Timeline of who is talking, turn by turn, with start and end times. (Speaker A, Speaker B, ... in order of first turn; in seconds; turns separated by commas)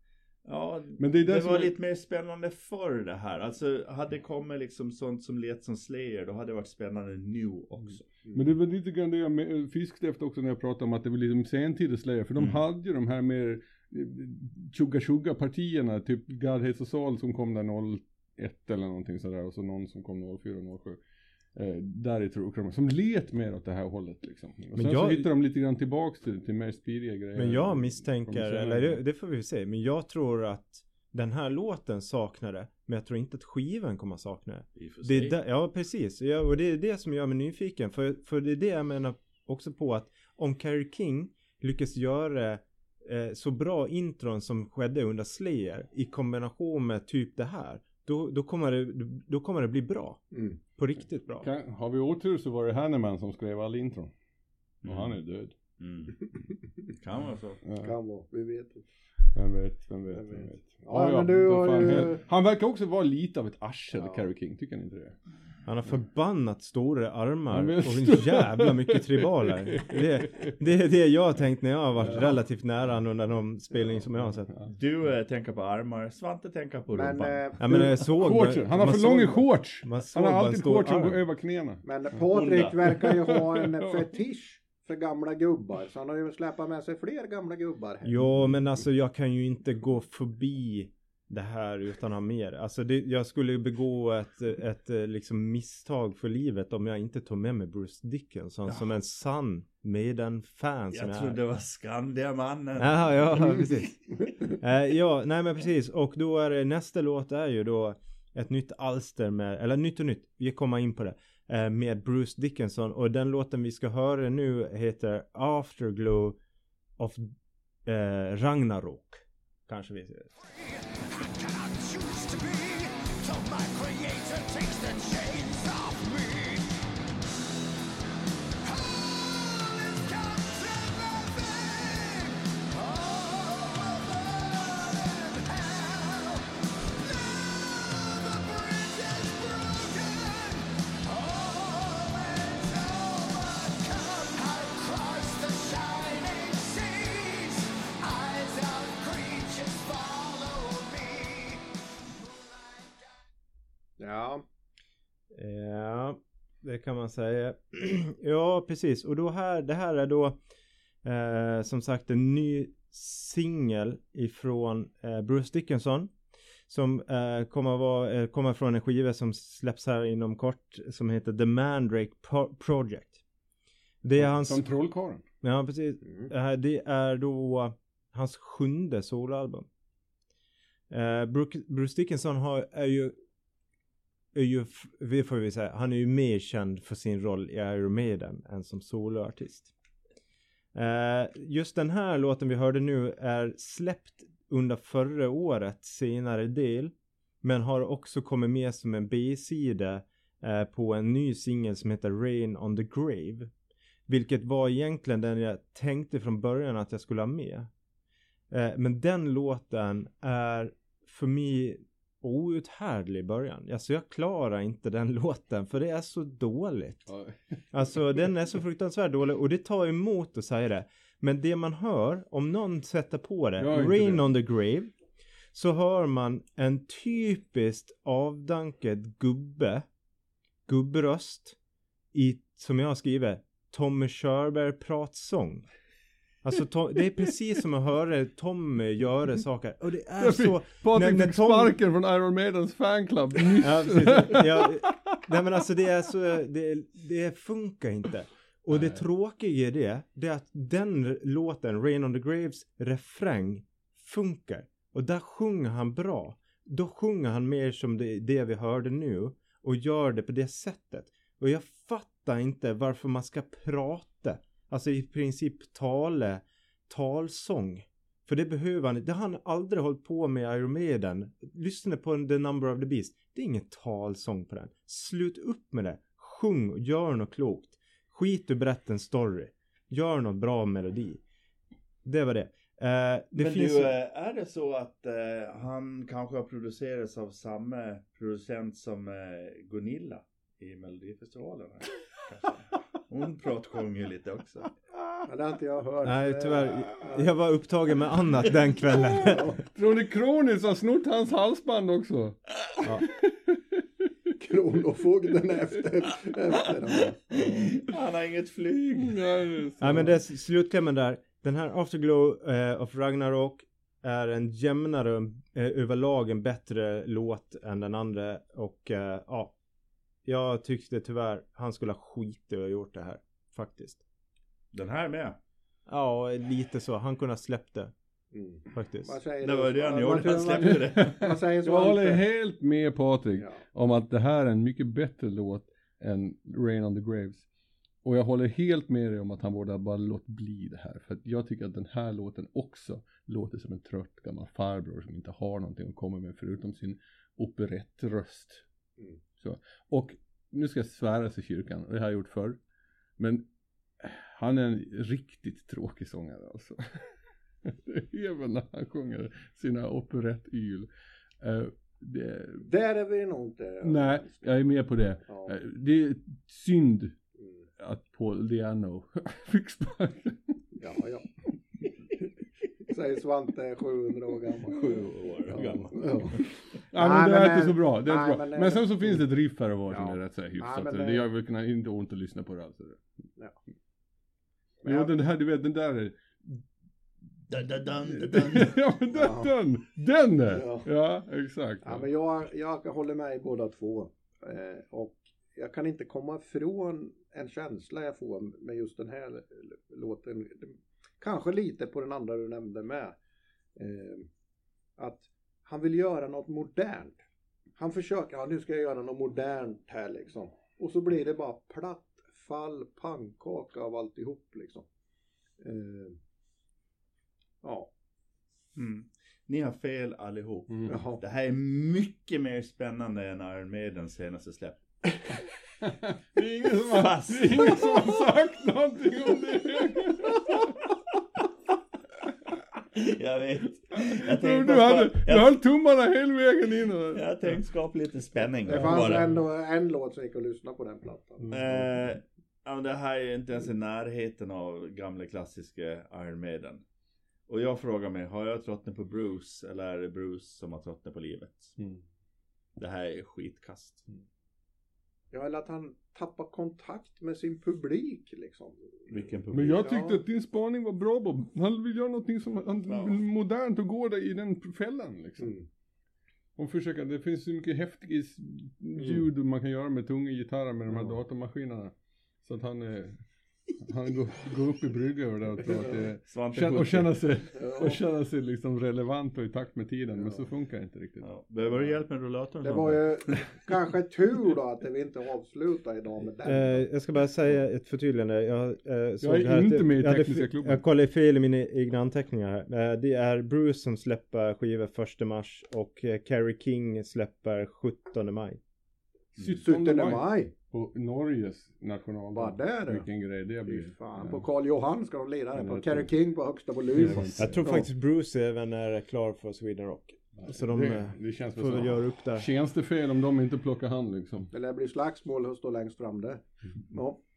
Speaker A: 0.5-8.1, Speaker B: 1.0-1.8, Speaker C: 8.2-8.5, Speaker B: 8.3-21.0, Speaker B: 21.6-29.0, Speaker D: 24.7-25.3, Speaker D: 27.4-50.2, Speaker A: 34.8-35.4, Speaker C: 50.3-50.6, Speaker D: 50.8-51.5, Speaker B: 51.4-54.1, Speaker B: 54.8-55.5, Speaker A: 54.9-55.2, Speaker A: 55.8-56.4, Speaker A: 56.9-57.6, Speaker B: 57.7-57.9, Speaker C: 57.8-58.8, Speaker B: 59.3-65.2, Speaker C: 60.1-62.2, Speaker C: 63.9-64.3, Speaker D: 65.7-74.5, Speaker B: 67.5-70.5, Speaker A: 74.7-77.5, Speaker C: 76.9-77.9, Speaker D: 77.6-81.2, Speaker B: 78.0-81.8, Speaker C: 81.8-88.3, Speaker A: 82.3-82.9, Speaker B: 83.0-83.9, Speaker D: 88.0-101.4, Speaker A: 100.9-103.8, Speaker D: 102.8-116.4, Speaker D: 117.0-117.3, Speaker D: 117.8-120.3, Speaker E: 120.4-126.7, Speaker E: 128.6-136.6, Speaker E: 137.8-153.2, Speaker C: 154.0-154.4, Speaker D: 155.3-160.4, Speaker D: 161.0-166.1, Speaker D: 166.7-173.2, Speaker D: 174.0-174.7, Speaker B: 174.2-175.2, Speaker D: 175.4-179.7, Speaker D: 180.9-183.1, Speaker D: 184.3-189.7, Speaker D: 190.7-203.5, Speaker D: 204.1-207.7, Speaker D: 208.5-217.1, Speaker B: 217.1-217.6, Speaker D: 217.7-224.9, Speaker B: 223.6-224.2, Speaker D: 225.5-229.9, Speaker D: 230.7-231.6, Speaker D: 232.1-235.7, Speaker D: 236.4-241.8, Speaker B: 240.2-245.2, Speaker D: 243.6-281.2, Speaker D: 282.1-283.9, Speaker A: 283.4-294.7, Speaker C: 295.3-297.3, Speaker D: 296.0-299.5, Speaker C: 299.2-299.6, Speaker B: 299.7-302.4, Speaker B: 303.0-303.6, Speaker C: 304.4-307.7, Speaker A: 307.4-309.3, Speaker B: 309.0-310.2, Speaker D: 309.8-319.6, Speaker D: 320.2-324.0, Speaker A: 324.7-325.4, Speaker D: 325.9-327.9, Speaker C: 328.3-332.2, Speaker D: 328.7-329.2, Speaker A: 329.4-331.2, Speaker B: 331.0-337.5, Speaker B: 338.0-348.6, Speaker B: 349.4-352.6, Speaker B: 353.2-353.5, Speaker B: 354.0-357.0, Speaker B: 357.6-360.9, Speaker B: 361.4-362.7, Speaker C: 362.7-364.4, Speaker B: 363.8-367.2, Speaker C: 365.3-365.6, Speaker C: 367.4-367.6, Speaker B: 367.8-370.6, Speaker C: 370.8-371.3, Speaker C: 372.9-379.2, Speaker A: 374.7-376.4, Speaker B: 376.9-383.0, Speaker C: 379.9-381.3, Speaker C: 384.8-385.1, Speaker B: 384.8-386.6, Speaker A: 387.5-388.8, Speaker B: 388.1-392.1, Speaker C: 389.1-389.5, Speaker C: 390.5-390.9, Speaker C: 391.8-403.2, Speaker C: 403.8-404.3, Speaker C: 405.0-407.2, Speaker C: 407.8-414.9, Speaker C: 415.6-416.2, Speaker C: 417.6-417.9, Speaker A: 418.8-424.8, Speaker C: 420.9-421.2, Speaker B: 425.8-430.7, Speaker A: 426.8-428.1, Speaker A: 432.9-435.5, Speaker B: 433.9-437.3, Speaker A: 437.1-439.4, Speaker C: 438.6-441.9, Speaker B: 438.9-439.2, Speaker A: 441.5-446.8, Speaker A: 447.5-451.8, Speaker B: 451.8-452.0, Speaker A: 452.8-454.1, Speaker C: 455.3-460.2, Speaker A: 459.1-459.9, Speaker B: 459.5-465.5, Speaker A: 462.9-463.2, Speaker C: 465.4-465.7, Speaker B: 466.6-471.9, Speaker C: 470.9-471.2, Speaker B: 472.4-473.2, Speaker B: 473.8-481.3, Speaker C: 475.7-476.0, Speaker A: 476.3-477.2, Speaker C: 477.6-478.0, Speaker C: 480.2-480.4, Speaker A: 481.2-483.4, Speaker C: 482.6-486.9, Speaker D: 486.4-498.6, Speaker B: 489.2-490.8, Speaker B: 499.4-504.4, Speaker C: 499.5-500.5, Speaker C: 502.4-503.1, Speaker C: 503.6-507.9, Speaker B: 505.6-506.1, Speaker B: 506.9-507.7, Speaker D: 507.4-512.5, Speaker B: 510.4-514.5, Speaker C: 514.5-517.2